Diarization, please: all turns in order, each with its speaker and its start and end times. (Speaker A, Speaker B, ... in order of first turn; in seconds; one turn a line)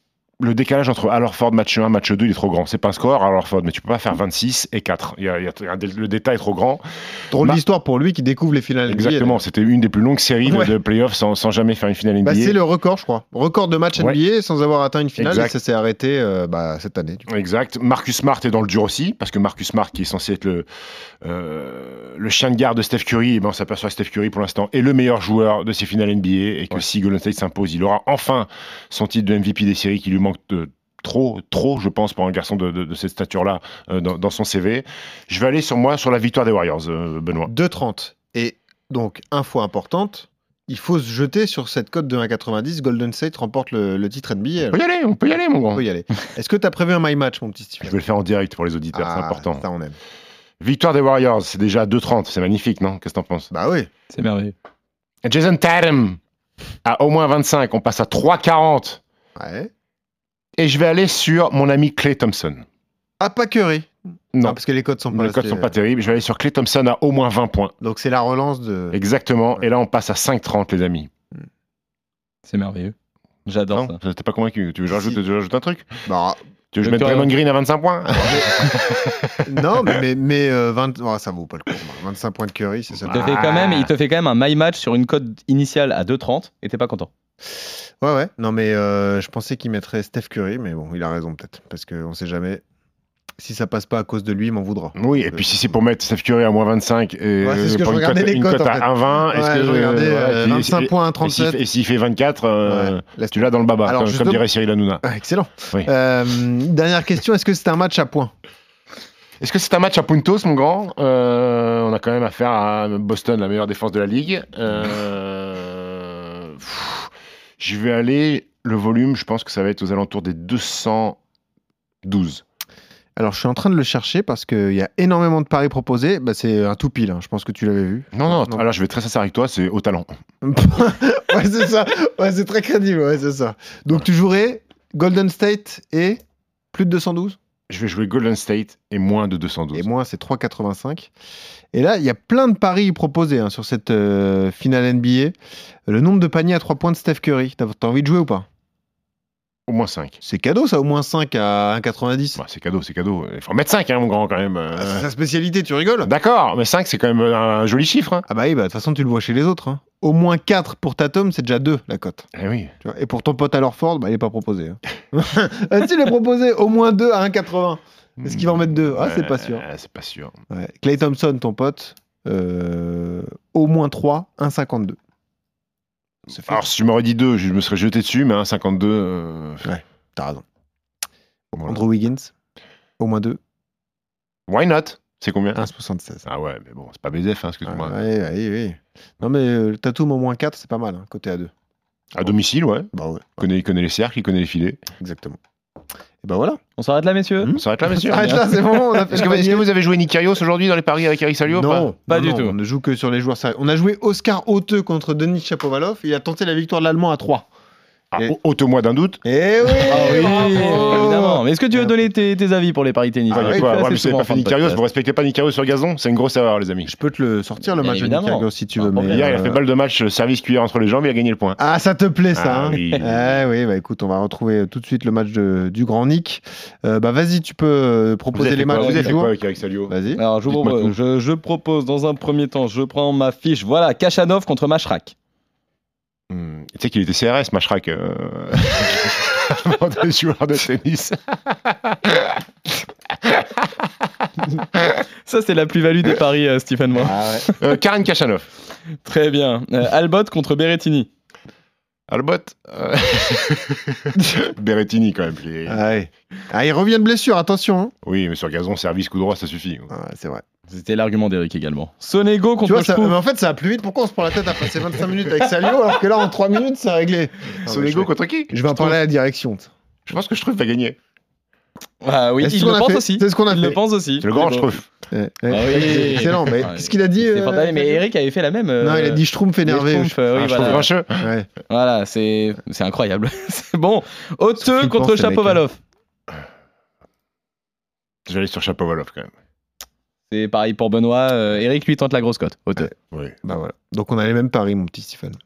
Speaker A: 0.4-6.8
Speaker B: 7.3-9.4
Speaker A: 7.3-7.6
Speaker A: 8.9-12.6
Speaker B: 10.4-10.8
Speaker B: 12.2-17.2
Speaker A: 15.2-15.5
Speaker A: 17.3-20.7
Speaker A: 21.2-37.5
Speaker B: 37.5-44.8
Speaker A: 44.7-45.8
Speaker B: 45.7-48.0
Speaker A: 47.8-49.6
Speaker B: 48.9-50.0
Speaker A: 50.6-53.5
Speaker B: 53.5-53.9
Speaker C: 54.1-54.5
Speaker A: 55.2-56.2
Speaker A: 56.8-59.0
Speaker B: 59.4-59.7
Speaker A: 60.6-62.6
Speaker B: 63.2-65.7
Speaker A: 65.1-67.7
Speaker B: 67.8-69.0
Speaker A: 68.9-71.1
Speaker C: 72.5-74.0
Speaker A: 73.7-76.0
Speaker B: 76.0-76.4
Speaker A: 76.7-79.3
Speaker C: 76.8-77.3
Speaker B: 79.4-83.5
Speaker A: 83.0-83.9
Speaker C: 83.1-87.1
Speaker B: 88.0-92.6
Speaker B: 93.4-95.6
Speaker A: 95.0-105.0
Speaker B: 97.4-101.6
Speaker B: 102.7-104.4
Speaker B: 105.0-108.3
Speaker A: 109.4-121.2
Speaker A: 122.0-122.4
Speaker B: 123.2-128.6
Speaker A: 128.1-130.1
Speaker B: 130.4-136.2
Speaker B: 136.7-137.4
Speaker A: 137.7-139.9
Speaker B: 139.7-141.1
Speaker B: 141.7-145.3
Speaker B: 145.9-148.4
Speaker A: 149.7-150.2
Speaker B: 150.2-152.4
Speaker A: 152.4-155.1
Speaker B: 154.8-156.1
Speaker A: 156.0-158.2
Speaker B: 158.3-162.3
Speaker A: 162.3-162.7
Speaker B: 162.8-169.6
Speaker A: 168.2-170.3
Speaker B: 170.5-175.0
Speaker B: 176.3-176.6
Speaker A: 176.5-179.7
Speaker B: 179.6-180.4
Speaker B: 181.5-182.3
Speaker B: 183.0-183.4
Speaker A: 184.5-185.6
Speaker B: 185.5-186.2
Speaker A: 186.2-187.9
Speaker B: 187.6-191.5
Speaker A: 192.1-194.8
Speaker B: 192.9-193.4
Speaker B: 195.0-195.4
Speaker B: 196.2-196.6
Speaker C: 196.8-197.5
Speaker B: 197.4-199.7
Speaker A: 197.5-201.9
Speaker B: 201.5-207.5
Speaker C: 202.1-202.6
Speaker A: 208.1-210.6
Speaker B: 209.2-212.1
Speaker C: 209.9-214.8
Speaker B: 213.3-213.8
Speaker A: 213.3-216.9
Speaker B: 216.8-219.6
Speaker C: 217.7-219.3
Speaker A: 219.1-221.6
Speaker B: 221.6-229.3
Speaker A: 222.3-223.4
Speaker A: 228.3-229.9
Speaker C: 228.7-229.2
Speaker B: 229.9-230.2
Speaker C: 230.1-235.1
Speaker A: 230.5-230.9
Speaker A: 236.3-242.4
Speaker C: 245.2-247.6
Speaker B: 247.0-247.5
Speaker A: 247.6-248.5
Speaker C: 249.0-251.1
Speaker A: 252.1-255.8
Speaker B: 255.7-257.9
Speaker A: 258.0-259.9
Speaker B: 259.9-260.4
Speaker C: 260.7-263.1
Speaker B: 262.6-269.7
Speaker A: 267.6-269.0
Speaker A: 270.1-271.0
Speaker C: 272.0-274.7
Speaker B: 272.4-273.8
Speaker A: 274.2-274.9
Speaker B: 275.1-278.0
Speaker C: 275.5-280.9
Speaker B: 278.8-281.5
Speaker A: 280.3-281.3
Speaker C: 281.7-285.8
Speaker B: 284.6-285.6
Speaker A: 288.3-289.3
Speaker C: 290.3-292.9
Speaker B: 292.8-295.4